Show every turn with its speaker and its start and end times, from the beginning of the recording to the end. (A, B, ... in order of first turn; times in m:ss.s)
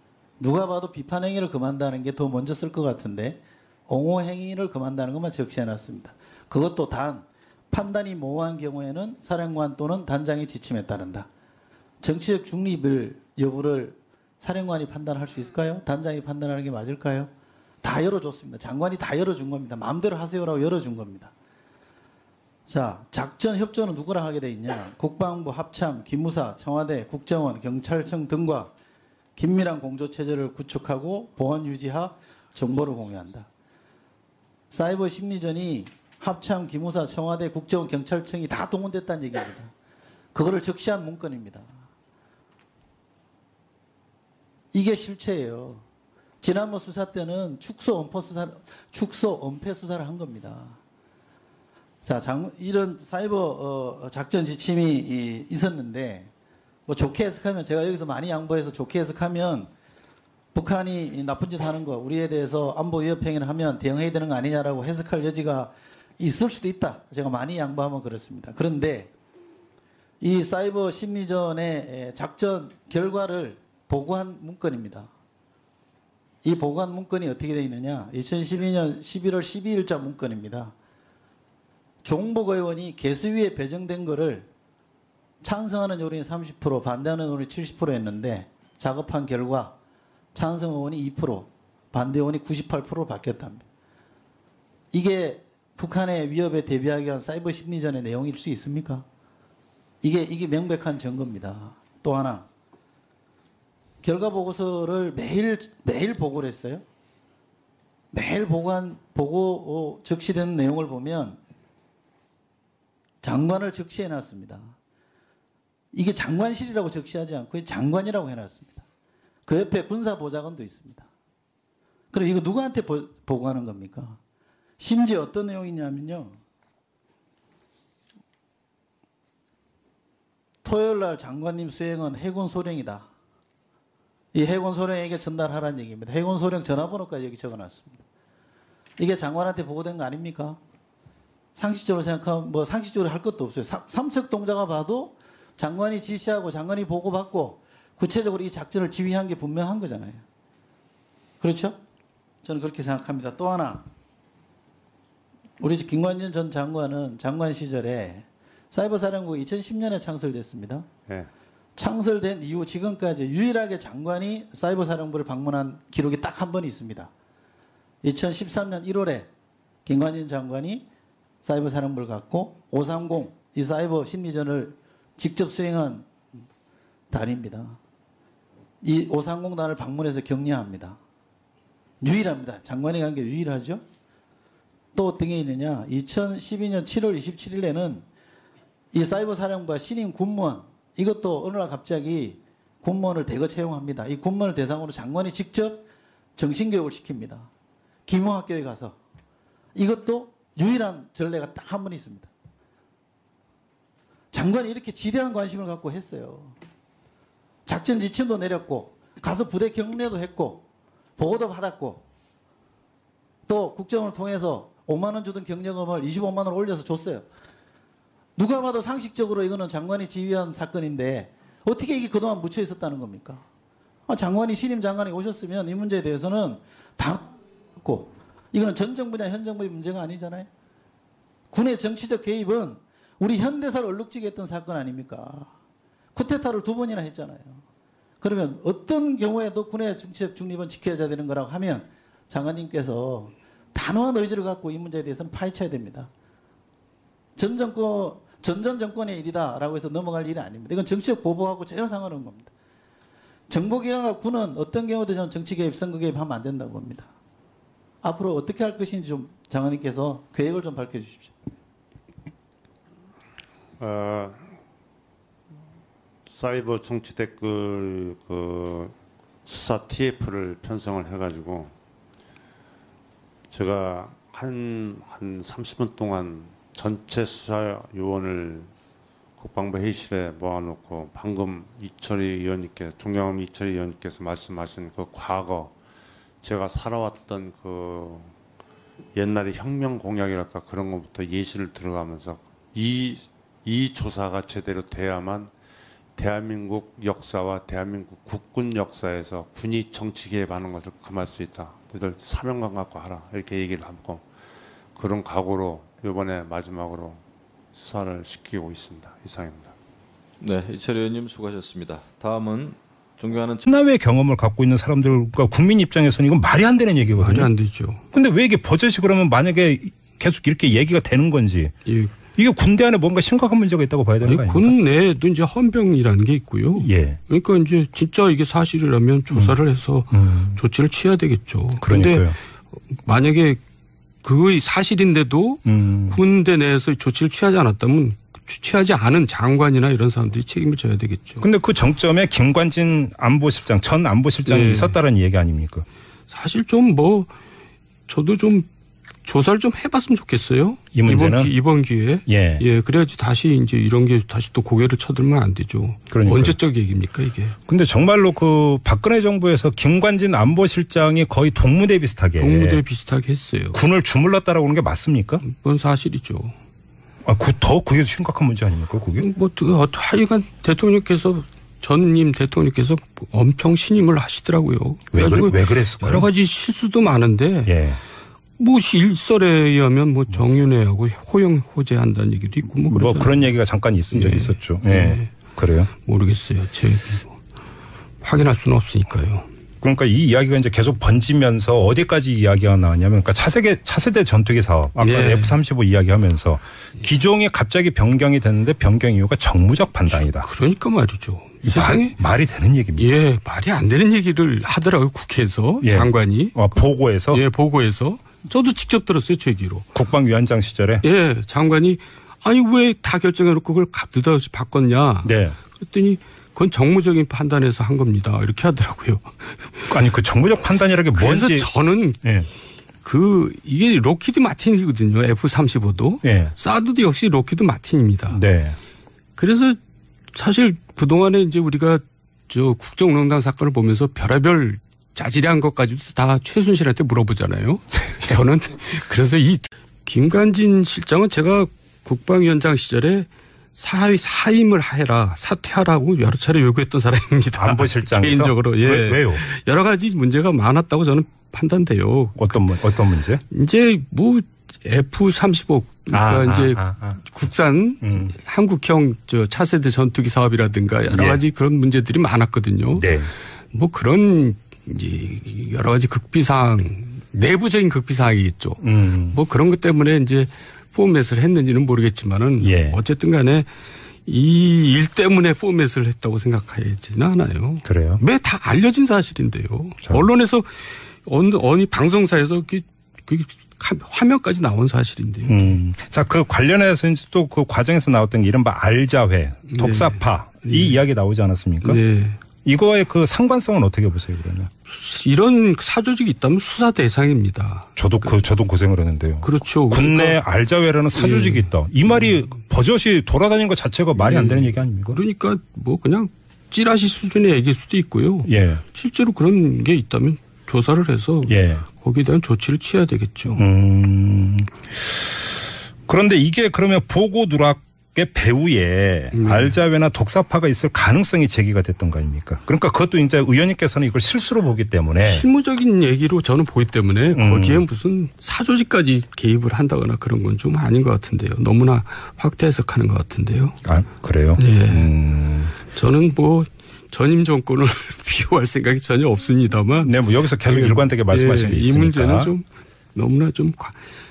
0:00.4-0:11.3 A
0:12.0-0:17.3 A
0:17.8-0:21.3 A
0:22.7-0:28.7 A
0:29.4-0:33.5 A
0:34.7-0:39.7 A
0:40.3-0:41.7 A
0:44.7-0:45.8 A
0:46.4-0:50.8 A
0:52.0-0:56.3 A
0:56.9-0:59.7 A
1:00.5-1:09.1 A
1:10.2-1:15.1 A
1:16.4-1:20.7 A
1:22.0-1:24.5 A
1:25.4-1:29.7 A
1:30.4-1:33.6 A
1:34.9-1:39.0 A
1:40.0-1:42.4 A
1:44.0-1:46.8 A
1:48.1-1:51.4 A
1:53.2-1:54.7 A
1:55.9-1:58.8 A
1:59.5-2:01.1 A
2:02.1-2:04.2 A
2:04.8-2:06.4 A
2:10.6-2:13.1 A
2:14.3-2:18.0 A
2:19.0-2:20.6 A
2:21.6-2:30.2 A
2:31.4-2:31.8 A
2:32.4-2:33.8 A
2:35.6-2:40.9 A
2:41.8-2:47.1 A
2:48.0-2:49.3 A
2:49.9-2:50.9 A
2:51.4-2:56.1 A
2:57.1-2:57.8 A
2:58.8-3:01.0 A
3:02.0-3:03.8 A
3:05.0-3:08.0 A
3:08.9-3:17.5 A
3:18.0-3:19.0 A
3:19.8-3:22.3 A
3:24.3-3:26.5 A
3:27.6-3:30.6 A
3:31.2-3:32.0 A
3:33.5-3:37.2 A
3:38.4-3:43.4 A
3:44.1-3:50.5 A
3:51.5-3:55.5 A
3:56.1-3:57.6 A
3:58.2-4:06.1 A
4:07.4-4:12.5 A
4:13.5-4:17.1 A
4:18.0-4:21.3 A
4:23.8-4:24.5 B
4:26.3-4:28.9 B
4:29.5-4:31.7 B
4:33.5-4:38.7 B
4:39.4-4:45.8 B
4:46.4-4:48.3 B
4:49.1-4:55.5 B
4:56.2-5:04.3 B
5:05.0-5:07.2 B
5:07.7-5:09.7 B
5:10.4-5:13.7 C
5:13.7-5:17.5 D
5:17.2-5:18.0 E
5:18.1-5:21.7 D
5:21.8-5:22.1 E
5:22.4-5:24.8 D
5:24.2-5:32.3 E
5:26.8-5:27.2 D
5:30.1-5:30.6 D
5:31.8-5:32.4 D
5:32.9-5:33.6 E
5:34.2-5:41.4 E
5:35.6-5:36.2 D
5:41.4-5:45.8 D
5:44.5-5:45.0 E
5:46.3-5:47.3 E
5:48.1-5:48.7 E
5:49.2-5:57.5 E
5:50.9-5:51.5 D
5:52.2-5:52.6 D
5:56.1-5:56.6 D
5:57.7-6:02.8 D
6:02.4-6:03.8 E
6:03.7-6:05.4 D
6:05.4-6:06.5 E
6:07.2-6:09.3 D
6:09.2-6:17.8 E
6:15.1-6:16.3 D
6:17.6-6:18.0 D
6:18.6-6:23.5 E
6:22.9-6:25.9 D
6:24.1-6:25.3 E
6:26.0-6:27.3 E
6:28.2-6:29.5 E
6:29.8-6:40.5 D
6:35.0-6:35.6 E
6:40.1-6:42.2 E
6:41.6-6:43.1 D
6:43.0-6:49.9 E
6:45.8-6:47.4 D
6:49.9-6:51.0 D
6:51.0-6:59.9 E
6:55.2-6:55.6 D
6:59.9-7:01.7 D
7:01.1-7:02.2 E
7:02.2-7:02.5 D
7:03.0-7:08.4 E
7:06.2-7:06.5 D
7:08.3-7:08.8 D
7:09.4-7:09.8 E
7:10.3-7:32.6 E
7:27.6-7:29.4 D
7:32.4-7:33.4 D
7:33.5-7:43.1 E
7:36.1-7:37.2 D
7:38.0-7:38.3 D
7:41.1-7:41.4 D
7:43.0-7:43.3 D
7:43.7-7:53.7 E
7:48.8-7:49.4 D
7:52.6-7:53.0 D
7:54.2-8:05.8 E
7:57.8-7:58.2 D
8:05.5-8:12.0 D
8:09.7-8:11.0 E
8:11.8-8:12.4 E
8:12.6-8:14.7 D
8:14.9-8:18.3 E
8:18.0-8:25.2 D
8:19.4-8:20.4 E
8:21.1-8:21.7 E
8:24.2-8:33.6 E
8:28.5-8:28.8 D
8:31.5-8:31.8 D
8:33.6-8:35.2 D
8:36.1-8:45.5 D
8:39.3-8:39.8 E
8:45.2-8:53.8 E
8:47.3-8:47.8 D
8:53.8-8:55.8 D
8:54.6-8:55.1 E
8:55.9-9:04.0 E
9:00.0-9:02.5 D